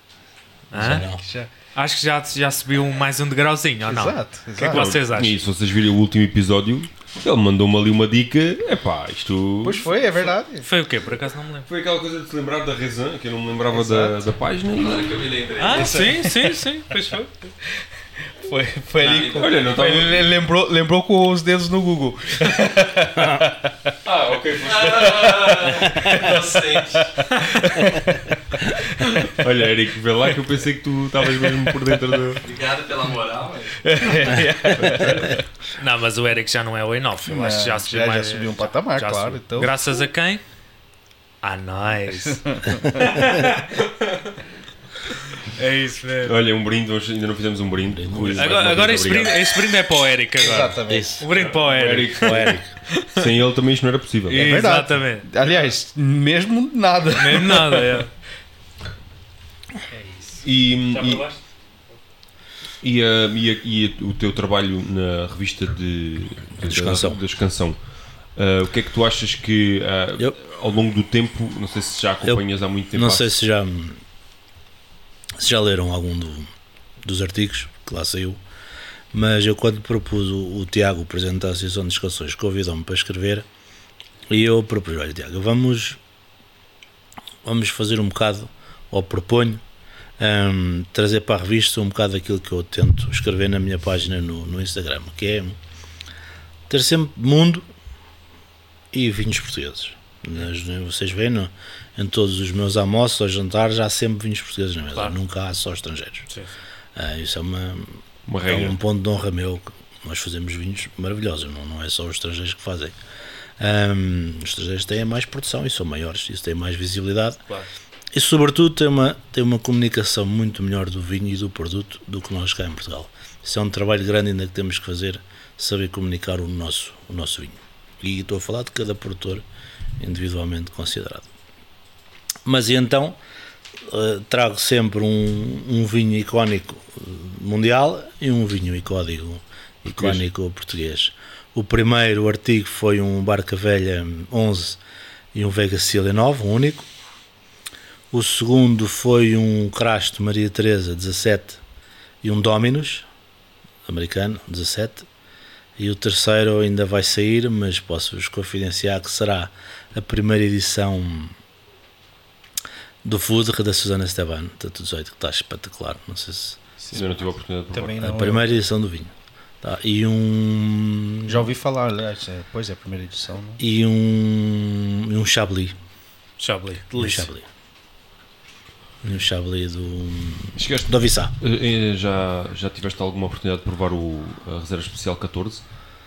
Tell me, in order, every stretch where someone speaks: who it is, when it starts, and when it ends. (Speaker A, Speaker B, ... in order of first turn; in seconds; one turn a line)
Speaker A: 0.7-5.4
Speaker B: 0.7-1.2
Speaker C: 1.2-1.5
Speaker C: 3.9-5.0
Speaker D: 4.7-10.3
Speaker C: 9.6-10.7
Speaker A: 10.6-11.7
Speaker D: 11.7-15.3
Speaker C: 13.7-14.2
Speaker E: 14.8-16.1
Speaker A: 15.6-17.3
Speaker C: 15.7-16.5
Speaker C: 18.4-23.9
Speaker E: 19.0-19.5
Speaker D: 19.3-20.2
Speaker B: 23.2-23.4
Speaker D: 24.1-25.6
Speaker E: 24.6-27.2
Speaker C: 24.9-29.5
Speaker D: 29.3-32.4
Speaker C: 31.3-32.2
Speaker E: 32.4-33.8
Speaker C: 33.8-35.4
Speaker D: 34.8-35.4
Speaker A: 35.8-40.4
Speaker C: 37.2-39.8
Speaker A: 41.4-44.3
Speaker C: 42.3-43.1
Speaker A: 45.3-46.4
Speaker D: 46.2-49.5
Speaker B: 47.9-48.7
Speaker A: 48.3-53.1
Speaker C: 50.4-51.3
Speaker B: 50.9-51.2
Speaker D: 51.3-52.6
Speaker B: 52.2-52.7
Speaker D: 53.1-54.4
Speaker A: 54.3-55.3
Speaker C: 54.3-58.0
Speaker A: 57.1-58.1
Speaker C: 59.9-60.4
Speaker D: 60.4-61.2
Speaker A: 60.9-61.4
Speaker D: 62.8-67.8
Speaker B: 66.6-67.2
Speaker D: 68.4-73.3
Speaker B: 72.9-74.0
Speaker B: 75.4-76.5
Speaker B: 77.0-78.4
Speaker B: 79.1-83.5
Speaker B: 84.3-86.0
Speaker B: 87.4-89.6
Speaker B: 90.2-95.6
Speaker B: 96.7-97.7
Speaker B: 98.9-106.3
Speaker B: 106.9-113.0
Speaker D: 108.3-108.8
Speaker B: 113.6-117.4
Speaker B: 118.1-129.4
Speaker B: 130.0-131.3
Speaker B: 132.4-133.2
Speaker B: 133.9-144.8
Speaker D: 139.9-140.2
Speaker B: 145.3-146.9
Speaker B: 148.1-151.6
Speaker B: 152.2-153.1
Speaker B: 153.8-155.1
Speaker B: 155.8-161.3
Speaker B: 163.0-166.7
Speaker D: 166.9-168.0
Speaker C: 167.7-168.6
Speaker B: 168.0-171.5
Speaker C: 171.2-173.6
Speaker B: 173.6-175.8
Speaker A: 176.4-176.9
Speaker C: 176.9-177.3
Speaker B: 176.9-177.4
Speaker B: 179.0-181.3
Speaker D: 180.6-185.7